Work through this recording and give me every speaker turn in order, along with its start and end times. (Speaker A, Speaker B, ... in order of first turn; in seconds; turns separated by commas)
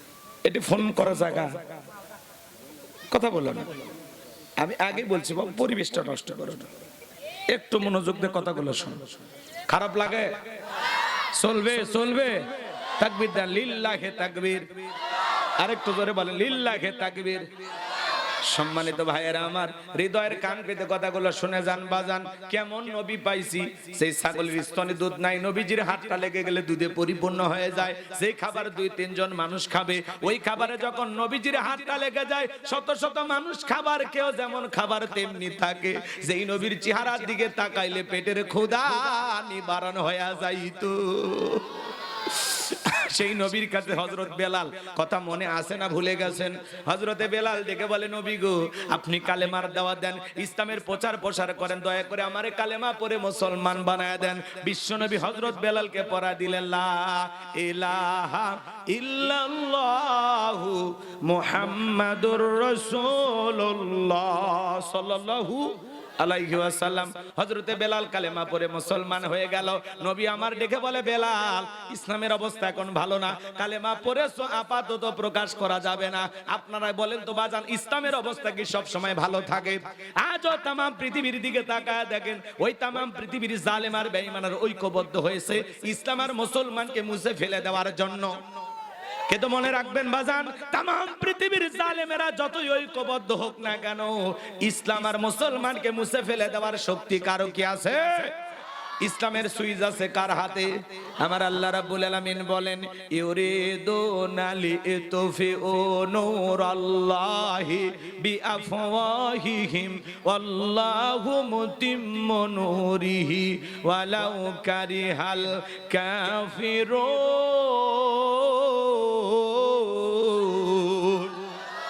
Speaker A: 0.4-1.7, Speaker A: 3.1-3.8, Speaker A: 4.6-6.7, Speaker A: 7.5-10.6, Speaker A: 11.3-14.7, Speaker A: 15.6-17.5, Speaker A: 18.4-88.3, Speaker A: 89.3-98.4, Speaker A: 99.0-121.5